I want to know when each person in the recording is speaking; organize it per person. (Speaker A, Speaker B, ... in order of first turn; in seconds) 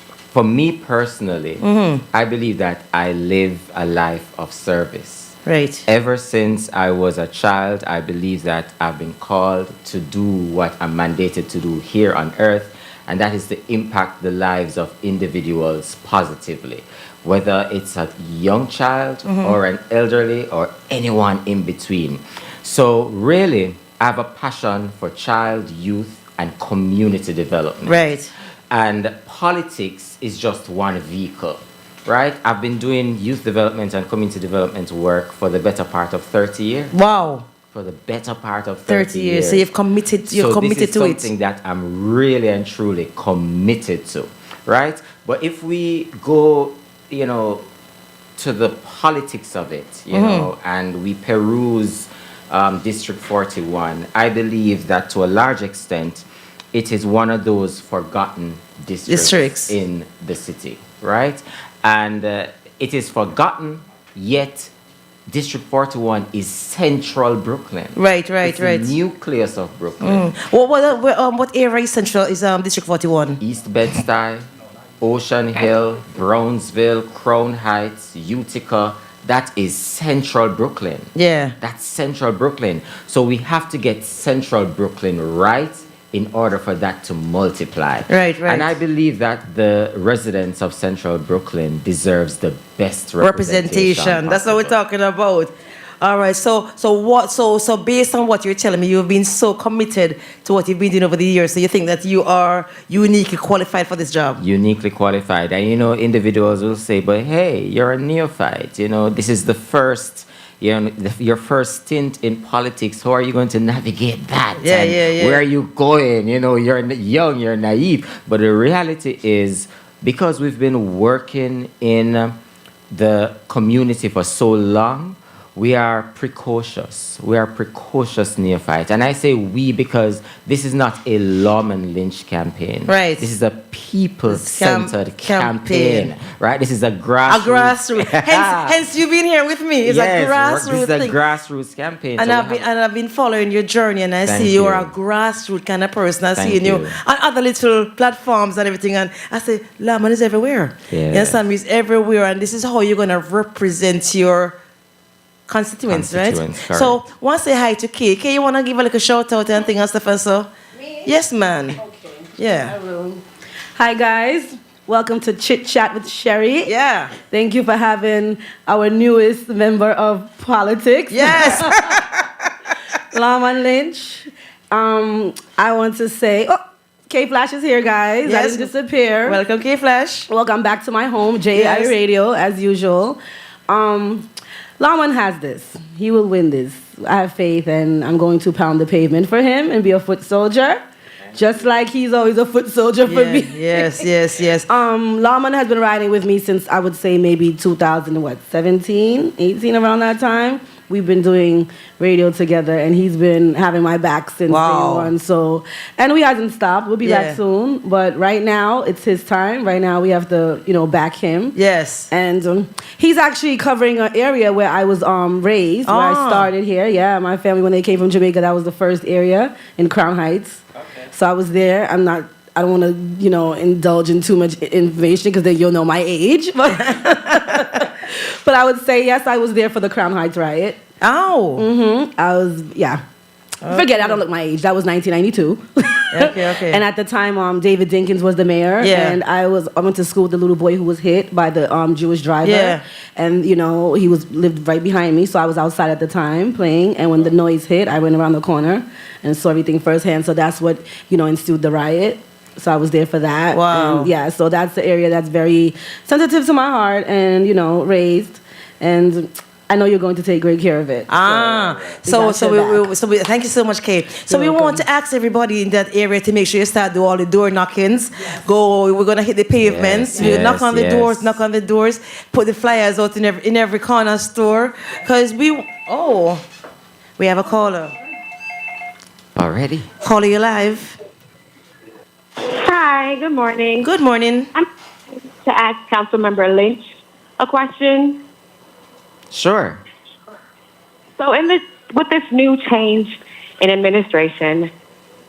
Speaker A: 0.3-28.1, 28.7-37.0, 37.7-39.7, 40.3-47.7, 48.4-64.7, 65.3-70.3, 73.4-74.5, 75.0-94.7, 104.4-122.4, 122.9-138.7, 139.8-142.7, 144.2-144.9, 146.3-147.0, 150.9-151.4, 155.9-157.0, 269.6-271.4, 279.3-279.9, 289.3-289.8
Speaker B: 1.6-2.0, 5.5-5.8, 19.2-19.6, 27.8-28.3, 36.9-37.5, 38.9-41.3, 50.1-50.5, 59.1-59.8, 67.9-68.9, 70.0-73.4, 81.1-81.5, 88.1-88.7, 93.2-104.4, 114.6-115.4, 132.9-133.3, 134.3-136.1, 137.2-141.2, 142.2-154.6, 155.5-160.5, 161.0-161.8, 162.4-162.7, 166.7-167.1, 171.1-172.7, 178.2-178.7, 179.2-180.3, 181.5-181.9, 193.0-194.7, 204.5-205.1, 207.0-207.4, 211.5-212.1, 215.8-216.5, 226.9-227.4, 231.0-231.6, 233.6-234.2, 236.1-236.8, 238.8-239.2, 242.4-242.8, 253.5-254.1, 261.1-276.4, 277.2-277.9, 280.0-280.9, 283.8-284.5
Speaker C: 161.8-163.2, 163.8-171.7, 173.1-176.6, 177.1-179.4, 180.3-184.3, 184.8-194.0, 194.7-211.6, 212.1-230.8, 231.6-233.0, 233.7-262.9, 264.3-264.8
Speaker D: 282.4-283.9, 285.4-286.8, 287.4-288.2, 291.2-294.7